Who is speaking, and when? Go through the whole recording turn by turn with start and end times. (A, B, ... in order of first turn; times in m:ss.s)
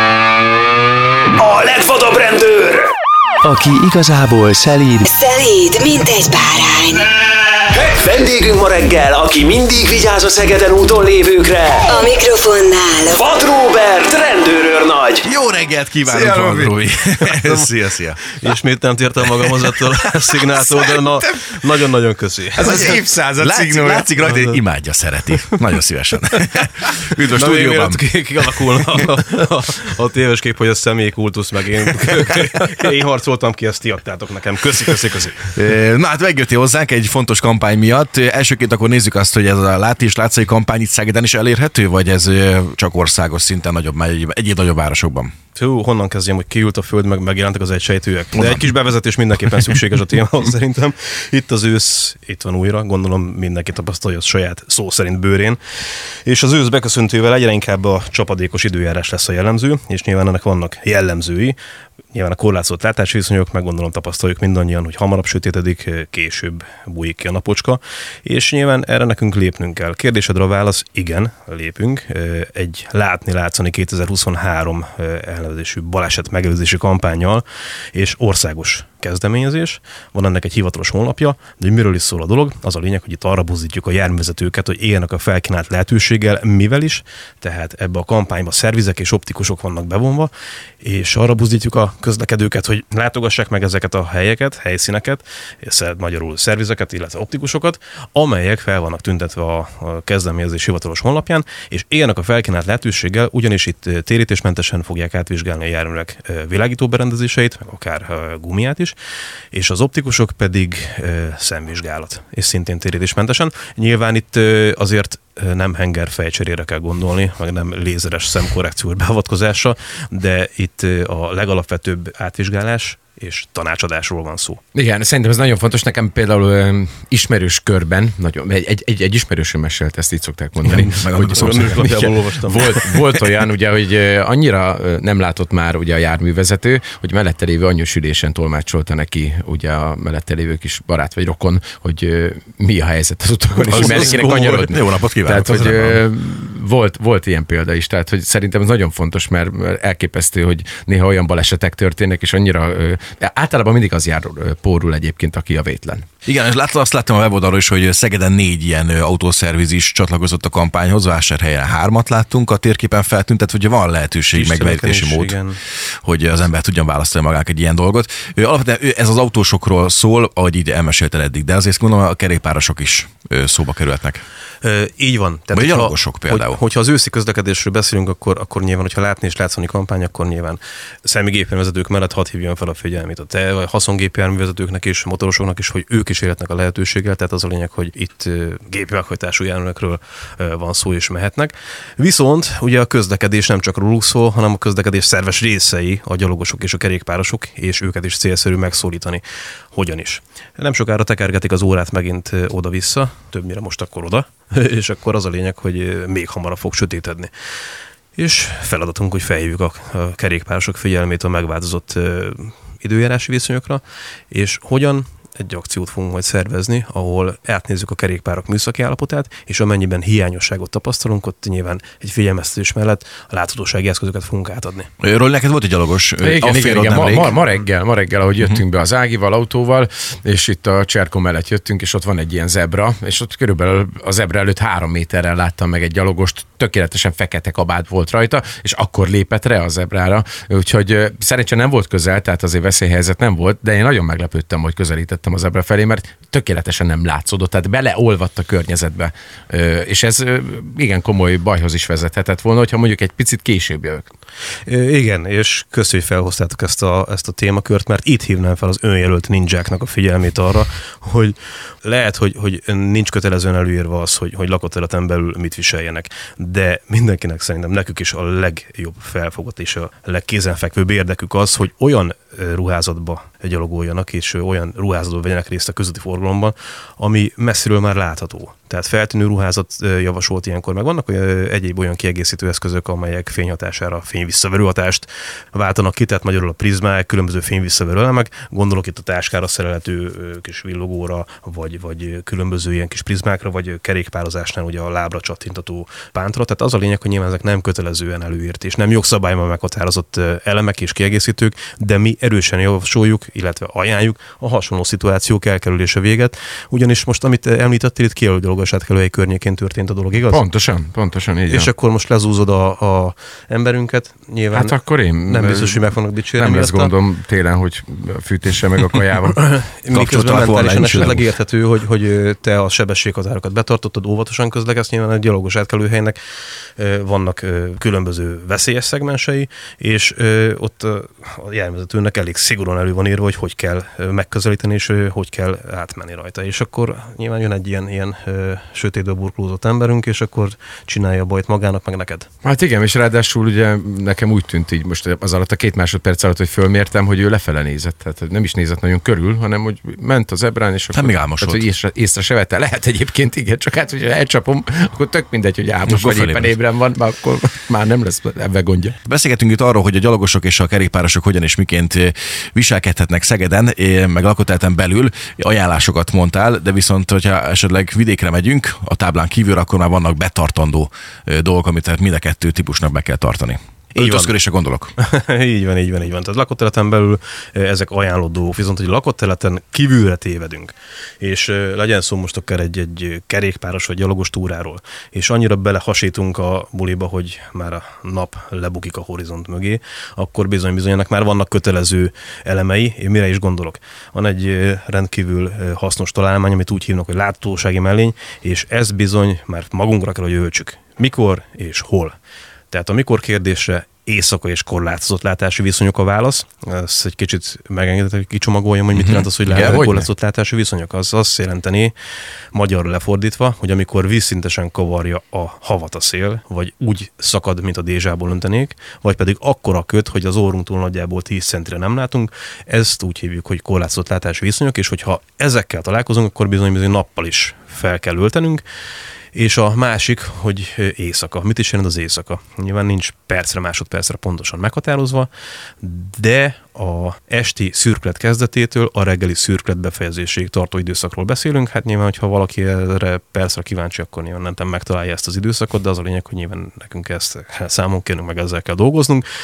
0:01.4-0:02.9 A
0:03.4-0:05.1 A
0:05.1-0:07.0 B
0:07.6-0:12.0 A
0:11.9-0:13.2 B
0:13.1-0:15.3 A
0:15.2-0:18.4 C
0:16.0-0:16.8 D
0:17.3-0:17.7 E
0:18.3-0:23.0 E
0:19.3-0:20.7 C
0:22.6-0:24.1 D
0:22.6-0:28.0 C
0:24.3-0:24.6 E
0:27.3-0:35.5 E
0:35.5-0:45.3 C
0:45.6-0:55.6 E
0:56.2-1:01.6 E
1:02.1-1:49.0 E
1:49.5-2:04.6 E
2:04.7-2:36.1 D
2:10.6-2:12.1 C
2:10.7-2:13.0 E
2:23.6-2:26.0 C
2:36.3-2:45.4 C
2:44.3-2:45.6 E
2:46.0-2:54.2 C
2:54.6-3:27.3 E
2:55.5-2:56.6 C
3:28.2-3:44.9 E
3:45.0-3:47.4 C
3:46.2-4:14.1 D
4:14.6-5:10.4 E
5:10.2-5:11.7 D
5:11.5-5:16.9 E
5:14.5-5:19.4 D
5:19.3-5:26.2 E
5:19.9-5:21.2 C
5:26.8-5:42.3 E
5:42.4-5:59.0 D
5:50.9-5:51.6 C
5:55.9-5:56.6 C
5:59.0-6:14.9 C
6:14.0-6:14.3 E
6:15.0-6:42.2 E
6:42.7-6:51.9 E
6:48.9-6:49.8 C
6:49.5-6:50.1 D
6:52.5-7:08.6 E
7:09.3-7:29.3 E